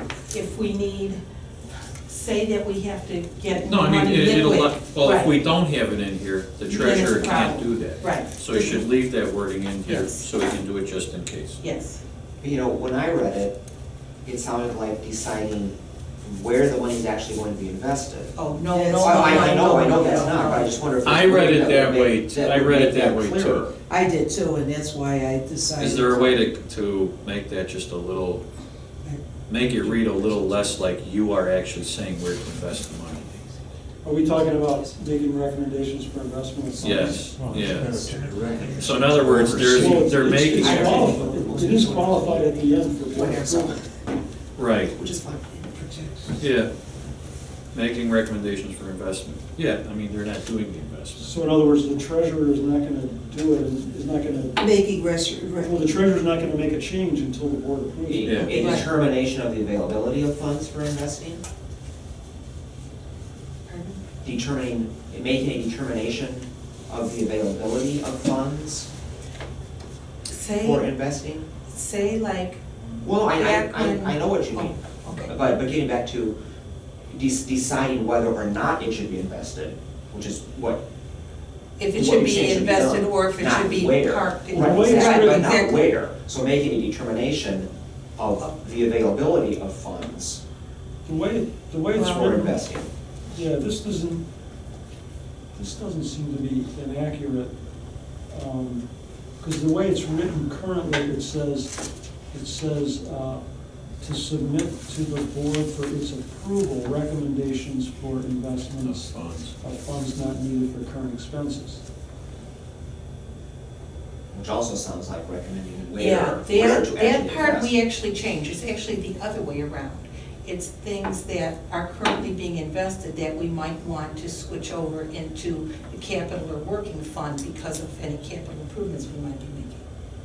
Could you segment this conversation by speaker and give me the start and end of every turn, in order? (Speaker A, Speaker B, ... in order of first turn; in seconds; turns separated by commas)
Speaker A: 0.3-1.2, Speaker A: 2.0-5.3, Speaker B: 3.6-11.6, Speaker A: 6.7-8.8, Speaker A: 9.8-10.3, Speaker A: 11.6-12.0, Speaker C: 12.4-13.6, Speaker C: 14.2-18.3, Speaker A: 18.4-20.7, Speaker D: 18.7-20.8, Speaker C: 19.0-23.7, Speaker B: 21.0-23.7, Speaker D: 23.9-26.4, Speaker B: 25.8-28.4, Speaker D: 29.0-30.4, Speaker B: 29.5-33.4, Speaker E: 34.0-37.4, Speaker B: 36.8-38.0, Speaker F: 37.3-40.8, Speaker C: 38.4-38.9, Speaker B: 38.8-41.3, Speaker E: 39.5-43.8, Speaker C: 40.4-43.7, Speaker B: 44.5-44.9, Speaker C: 44.8-46.4, Speaker B: 46.4-46.7, Speaker B: 47.7-51.3, Speaker E: 51.1-54.7, Speaker D: 54.6-55.8, Speaker E: 55.6-58.8, Speaker C: 58.0-61.4, Speaker B: 58.2-58.5, Speaker A: 58.5-58.9, Speaker A: 63.7-64.0, Speaker C: 64.2-68.9, Speaker A: 70.3-70.9, Speaker C: 70.6-71.5, Speaker A: 71.7-72.6, Speaker C: 73.0-76.3, Speaker A: 73.3-75.3, Speaker C: 77.1-80.8, Speaker A: 81.8-85.9, Speaker C: 81.9-90.4, Speaker E: 84.5-85.5, Speaker E: 91.0-92.6, Speaker C: 91.9-92.9, Speaker E: 93.3-94.2, Speaker E: 95.5-97.5, Speaker E: 98.3-98.8, Speaker E: 99.4-101.7, Speaker E: 102.3-103.4, Speaker E: 104.0-111.8, Speaker B: 108.8-109.5, Speaker C: 114.3-117.7, Speaker A: 116.0-129.8